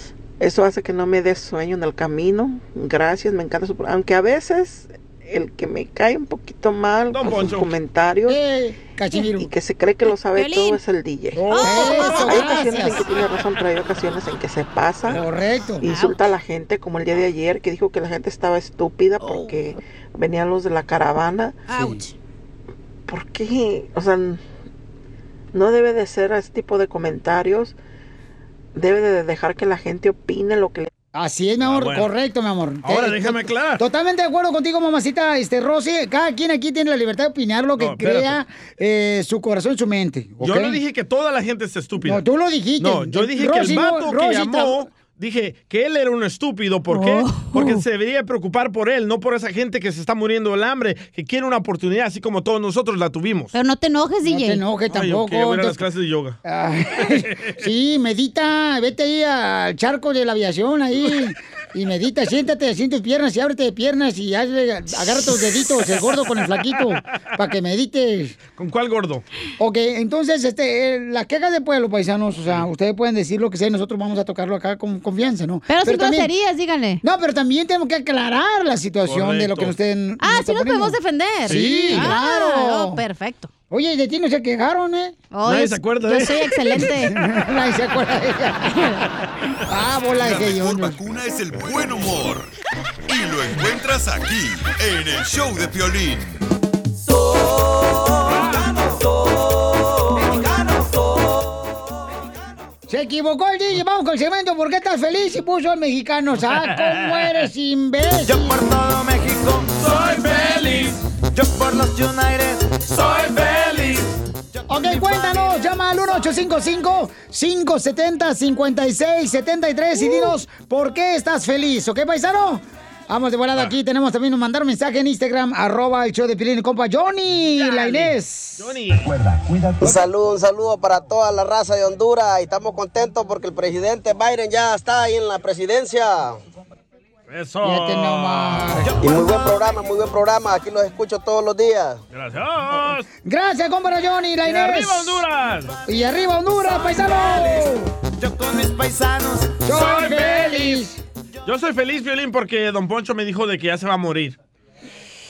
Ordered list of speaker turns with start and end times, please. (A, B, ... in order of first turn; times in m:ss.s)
0:00.4-0:08.4 A
0:07.1-0:07.8 B
0:08.3-0:09.5 C
0:09.2-0:15.2 A
0:10.3-0:10.8 D
0:11.3-0:13.1 C
0:11.5-0:12.6 D
0:15.1-0:15.9 C
0:15.8-0:16.2 D
0:15.8-0:21.6 A
0:19.2-0:19.6 D
0:21.7-0:22.1 D
0:21.7-0:22.0 C
0:23.1-0:24.4 A
0:25.5-0:27.8 A
0:28.7-0:30.9 A
0:31.1-0:40.8 C
0:31.6-0:32.1 B
0:32.8-0:33.8 B
0:37.8-0:38.4 B
0:40.4-0:42.2 B
0:42.0-0:44.9 C
0:42.8-0:53.6 B
0:46.9-0:47.8 D
0:53.5-0:54.6 D
0:54.2-0:55.8 C
0:54.9-0:56.4 B
0:56.4-1:08.4 C
1:08.5-1:09.2 B
1:09.6-1:16.3 C
1:15.7-1:17.0 D
1:17.0-1:23.0 C
1:19.1-1:19.8 B
1:20.2-1:23.5 D
1:21.5-1:22.1 B
1:23.7-1:25.2 C
1:25.3-1:27.2 D
1:25.4-1:26.5 B
1:27.0-1:28.8 C
1:29.7-1:31.0 C
1:30.0-1:32.5 E
1:33.1-1:36.4 E
1:38.3-1:38.8 B
1:42.9-1:48.7 C
1:46.7-1:47.0 B
1:54.7-2:08.7 C
2:07.4-2:09.0 B
2:09.8-2:16.4 F
2:17.3-2:18.8 B
2:17.6-2:19.0 C
2:19.0-2:22.0 F
2:22.1-2:23.1 B
2:23.2-2:25.3 C
2:24.4-2:25.7 B
2:25.9-2:27.9 C
2:29.6-2:31.0 C
2:29.7-2:30.9 B
2:31.4-2:34.4 B